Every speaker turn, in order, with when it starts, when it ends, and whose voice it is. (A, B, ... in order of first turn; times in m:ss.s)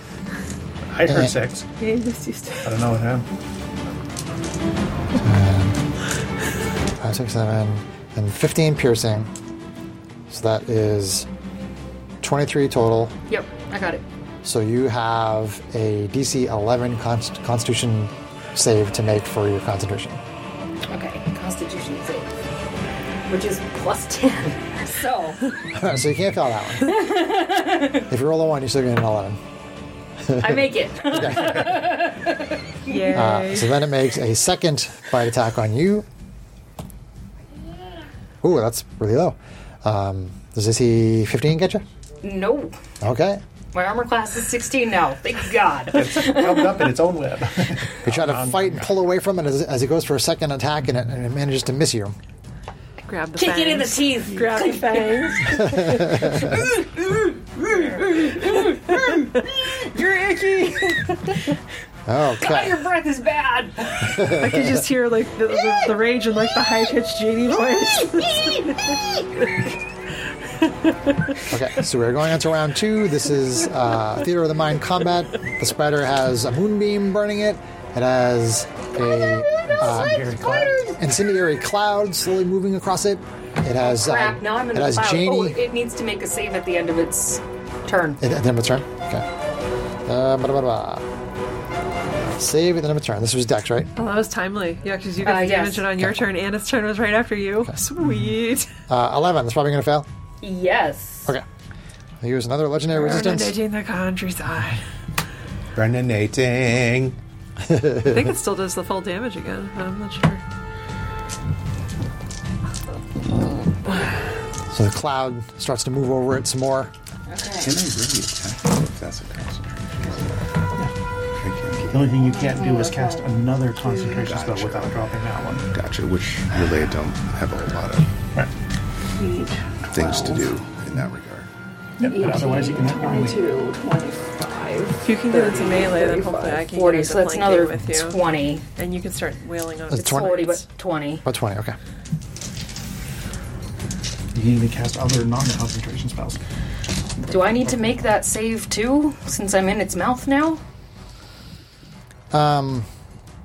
0:00.9-0:01.7 A
0:01.1-0:01.4 B
0:01.8-0:02.7 C
0:02.6-0:03.2 A
0:05.2-0:05.8 B
0:07.0-0:09.3 B
0:10.3-0:11.3 B
0:12.2-0:13.2 B
0:13.3-0:14.0 D
0:14.4-0:20.2 B
0:20.9-0:22.3 D
0:23.3-0:25.5 D
0:25.7-0:27.0 B
0:26.8-0:28.1 D
0:28.1-0:29.4 B
0:30.2-0:30.6 B
0:30.4-0:33.2 D
0:31.2-0:31.7 B
0:32.9-0:33.8 C
0:33.1-0:36.1 B
0:38.4-0:41.8 B
0:42.2-0:42.8 D
0:43.0-0:43.4 B
0:43.7-0:46.9 D
0:45.9-0:48.9 A
0:48.0-0:52.2 B
0:53.1-0:56.4 C
0:53.4-0:55.6 D
0:55.6-0:56.4 B
0:56.3-1:01.5 D
0:57.7-0:58.1 A
1:02.1-1:02.8 B
1:02.4-1:04.2 D
1:04.0-1:04.8 B
1:04.3-1:08.8 C
1:08.2-1:09.2 D
1:10.6-1:11.4 C
1:11.5-1:25.6 B
1:19.6-1:21.0 A
1:23.8-1:28.2 D
1:28.2-1:29.2 B
1:30.1-1:31.1 B
1:32.4-1:33.9 B
1:34.0-1:38.7 C
1:35.2-1:35.9 D
1:38.9-1:40.1 B
1:40.4-1:41.3 D
1:42.2-1:43.6 B
1:42.9-1:44.8 C
1:45.8-1:47.2 E
1:47.7-1:48.2 B
1:48.0-1:50.4 C
1:53.3-1:53.7 D
1:54.7-1:56.9 B
1:57.3-1:57.8 D
1:57.6-2:00.4 E
2:01.4-2:02.0 E
2:01.8-2:05.7 A
2:02.4-2:03.3 D
2:03.8-2:05.0 E
2:05.7-2:08.1 E
2:09.2-2:10.5 D
2:09.9-2:11.5 E
2:12.0-2:13.5 A
2:12.0-2:18.6 D
2:15.0-2:18.2 C
2:18.8-2:20.6 C
2:19.9-2:20.4 B
2:20.0-2:21.2 D
2:21.2-2:21.8 B
2:24.3-2:26.4 A
2:27.3-2:30.6 D
2:32.3-2:32.9 B